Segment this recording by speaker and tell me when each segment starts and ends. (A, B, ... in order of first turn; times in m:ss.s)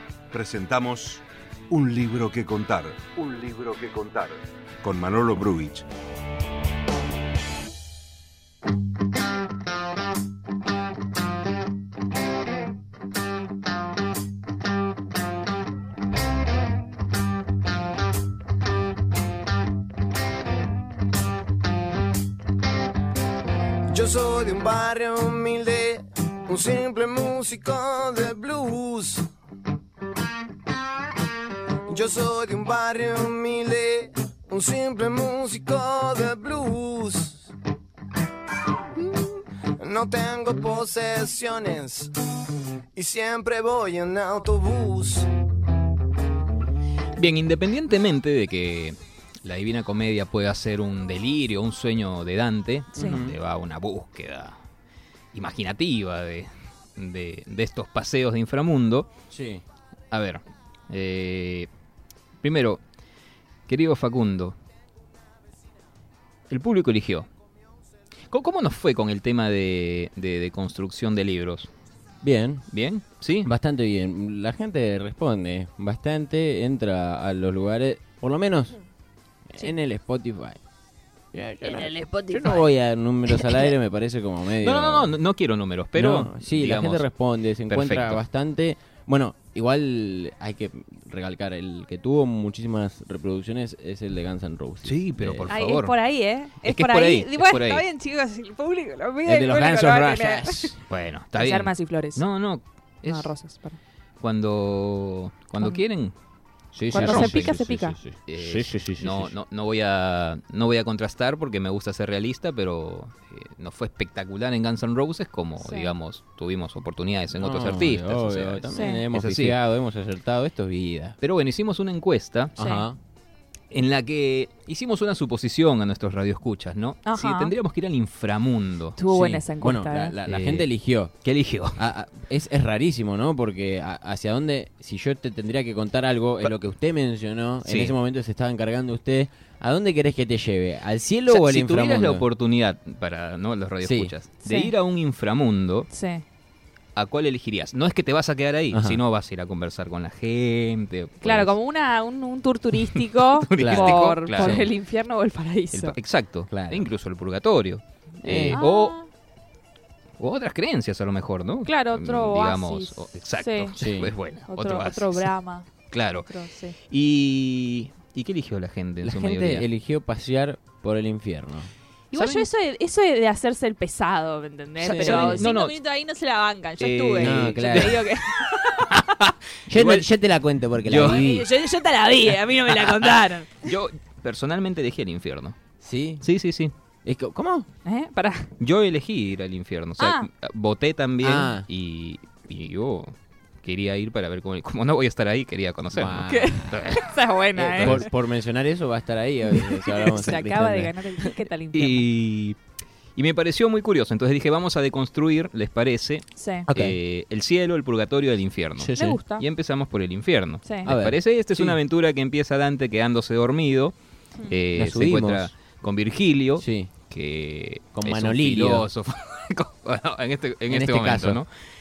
0:00.3-0:05.8 A
0:23.9-0:29.3 B
0:31.9-0:37.5 B
0:39.0-0:42.1 B
0:43.0-0:45.3 B
0:47.2-0:54.6 C
0:53.0-0:53.2 D
0:53.0-0:53.4 E
0:55.3-0:59.1 C
0:59.3-0:59.6 E
1:00.1-1:01.7 C
1:02.4-1:02.8 C
1:03.7-1:04.6 C
1:06.5-1:07.3 C
1:08.3-1:11.7 C
1:12.2-1:12.6 E
1:12.7-1:13.5 C
1:13.4-1:18.8 E
1:19.5-1:20.6 E
1:21.3-1:25.2 E
1:21.6-1:22.6 D
1:24.6-1:27.1 C
1:26.0-1:35.5 E
1:27.7-1:28.2 C
1:34.8-1:35.9 C
1:35.5-1:40.8 D
1:36.6-1:37.8 C
1:39.2-1:40.8 E
1:40.9-1:43.3 C
1:41.4-1:42.2 D
1:43.0-1:43.8 D
1:44.2-1:46.2 C
1:46.7-1:49.3 E
1:46.9-1:47.6 C
1:46.9-1:48.0 D
1:48.3-1:59.6 C
1:55.6-1:55.9 D
1:57.4-2:01.2 E
1:58.7-1:59.0 D
2:01.2-2:02.6 C
2:02.6-2:02.9 D
2:02.6-2:03.0 E
2:03.7-2:09.0 C
2:07.0-2:07.5 D
2:09.0-2:10.2 D
2:09.1-2:11.2 E
2:10.2-2:10.7 C
2:11.2-2:11.8 C
2:11.8-2:22.3 E
2:17.6-2:18.0 C
2:21.3-2:25.9 C
2:23.8-2:24.1 E
2:24.4-2:24.7 D
2:25.9-2:26.2 D
2:27.0-2:31.6 C
2:28.7-2:29.0 E
2:31.2-2:36.0 D
2:32.9-2:34.7 C
2:33.6-2:34.7 E
2:35.7-2:39.0 C
2:36.5-2:36.9 E
2:38.2-2:38.6 E
2:38.5-2:39.1 D
2:40.2-2:45.3 C
2:41.6-2:43.8 D
2:43.8-2:44.1 E
2:44.5-2:45.7 D
2:45.9-2:46.3 C
2:46.2-2:46.8 D
2:46.9-2:49.7 C
2:49.0-2:51.7 E
2:52.1-2:58.9 D
2:52.1-2:52.5 C
2:54.8-2:55.5 E
2:54.9-2:55.8 C
2:56.8-3:00.1 C
2:57.2-2:58.1 E
2:59.7-3:01.5 E
3:00.9-3:01.3 C
3:01.0-3:03.7 D
3:02.7-3:05.6 C
3:05.8-3:06.3 E
3:06.2-3:06.7 C
3:07.0-3:07.7 E
3:07.8-3:08.5 D
3:08.6-3:17.1 C
3:10.0-3:10.3 D
3:11.2-3:11.7 E
3:15.9-3:16.8 E
3:16.2-3:18.1 D
3:17.6-3:21.0 E
3:17.8-3:18.1 C
3:20.0-3:22.0 D
3:20.1-3:20.3 C
3:21.7-3:22.6 C
3:23.2-3:34.0 C
3:26.4-3:26.7 D
3:26.7-3:27.0 E
3:28.8-3:29.2 E
3:28.9-3:29.5 D
3:30.6-3:30.9 D
3:30.9-3:31.8 E
3:34.5-3:41.5 C
3:34.8-3:35.5 E
3:36.6-3:36.9 E
3:38.0-3:38.9 E
3:40.7-3:41.4 E